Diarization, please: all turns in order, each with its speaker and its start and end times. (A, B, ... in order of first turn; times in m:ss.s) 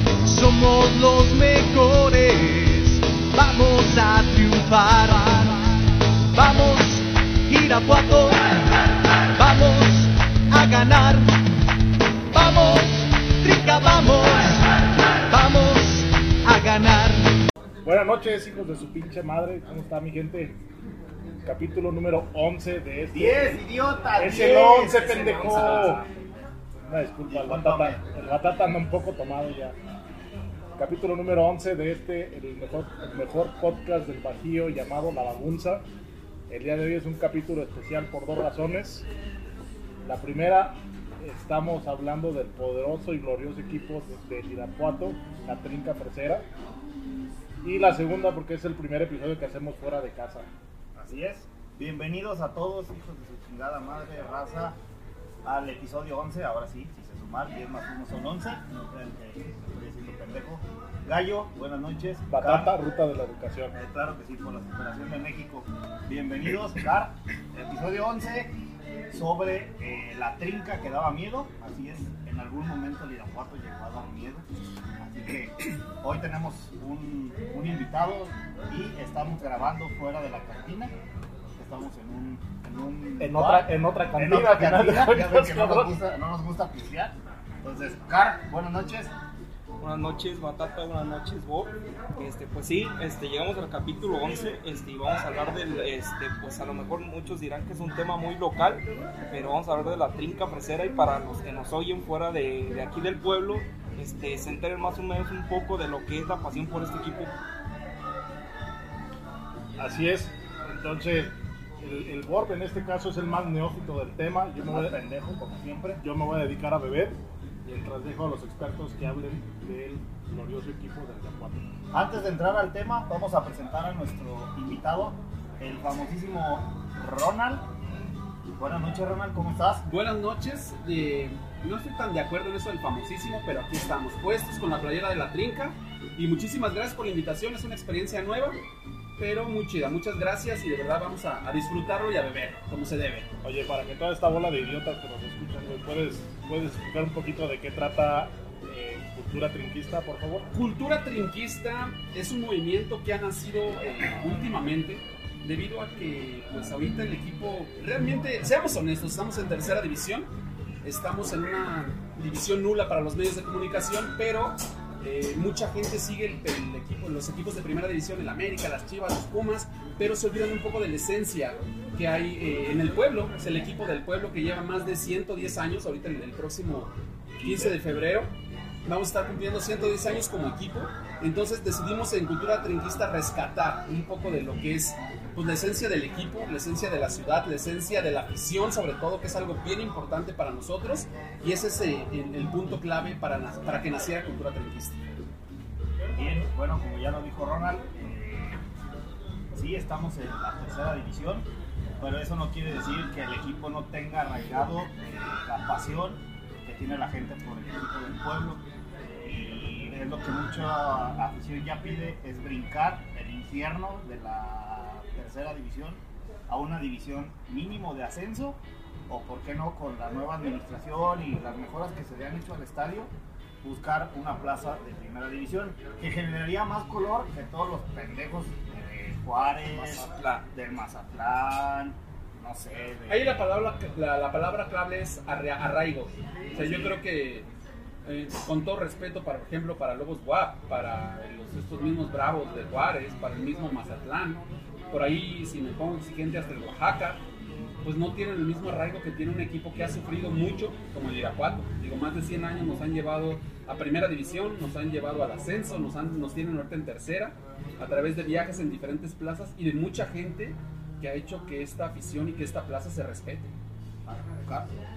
0:00.3-0:05.8 A
0:06.3-0:11.4 A
0:12.3-0:17.4 A
0:17.8-0:20.6 B
0:21.4-0:23.6 B
0:23.1-0:26.5 C
0:24.2-0:26.0 B
0:26.9-0:29.8 B
0:27.3-0:28.0 C
0:30.8-0:35.9 B
0:36.5-0:39.1 B
0:40.0-0:46.5 B
0:47.6-0:50.5 B
0:51.0-0:54.8 C
0:55.4-1:02.8 C
1:02.3-1:03.8 B
1:03.7-1:08.6 C
1:09.1-1:14.5 C
1:15.0-1:20.9 C
1:21.6-1:29.1 C
1:23.2-1:26.0 B
1:29.8-1:47.3 D
1:49.8-1:55.0 B
1:54.7-1:56.0 C
1:56.0-2:01.7 B
2:01.9-2:07.7 C
2:08.6-2:09.8 C
2:09.8-2:18.6 E
2:19.2-2:23.3 E
2:23.4-2:30.5 B
2:30.5-2:40.3 E
2:40.8-2:58.3 E
2:57.4-2:57.8 C
2:58.8-3:15.0 E
3:16.2-3:18.6 C
3:19.5-3:21.5 C
3:22.0-3:28.6 C
3:29.2-3:43.1 C
3:43.6-3:53.4 C
3:49.7-3:50.5 D
3:53.1-3:57.5 E
3:56.5-3:57.0 C
3:58.0-4:07.2 E
4:07.8-4:23.5 E
4:24.1-4:24.7 C